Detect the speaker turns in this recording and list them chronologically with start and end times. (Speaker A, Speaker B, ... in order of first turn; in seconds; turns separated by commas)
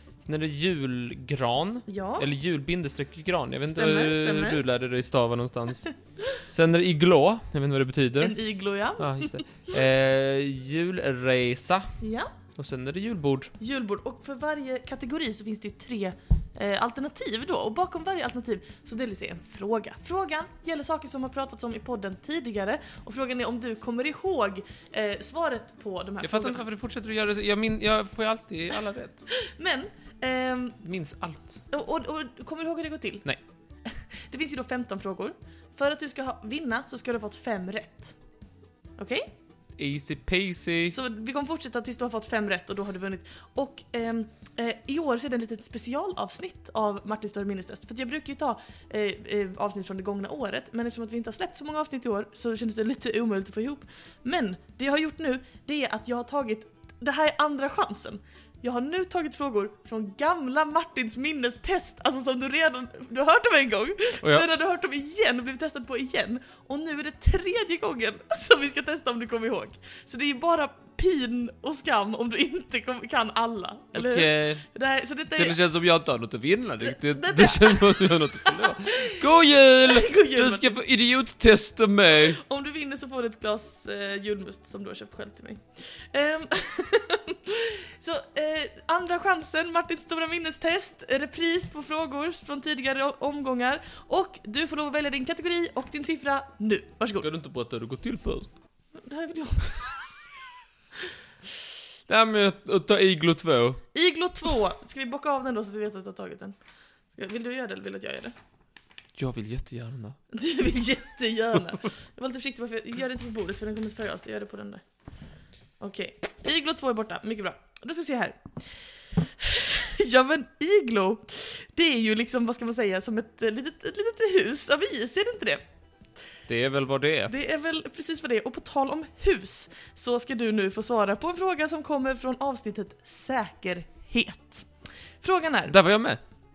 Speaker A: 0.2-8.4, Speaker B: 1.9-2.3, Speaker B: 3.6-4.6, Speaker B: 8.2-9.7, Speaker A: 9.0-11.9, Speaker B: 12.0-12.3, Speaker A: 12.6-13.5, Speaker B: 13.6-26.6, Speaker A: 26.2-29.3, Speaker B: 29.3-30.8, Speaker A: 30.8-31.6, Speaker B: 31.7-33.2, Speaker B: 33.9-38.1, Speaker B: 39.0-39.3, Speaker A: 39.8-41.0, Speaker B: 40.9-75.5, Speaker A: 73.9-74.6, Speaker A: 75.3-82.4, Speaker B: 76.8-79.2, Speaker B: 79.8-80.8, Speaker B: 82.3-97.3, Speaker A: 97.2-98.5, Speaker B: 99.0-100.1, Speaker A: 102.1-103.8, Speaker B: 103.9-106.5, Speaker B: 107.1-108.3, Speaker A: 109.2-110.2, Speaker B: 110.3-114.8, Speaker B: 115.8-125.6, Speaker A: 126.5-127.3, Speaker B: 127.3-134.7, Speaker B: 135.2-135.8, Speaker A: 135.7-136.2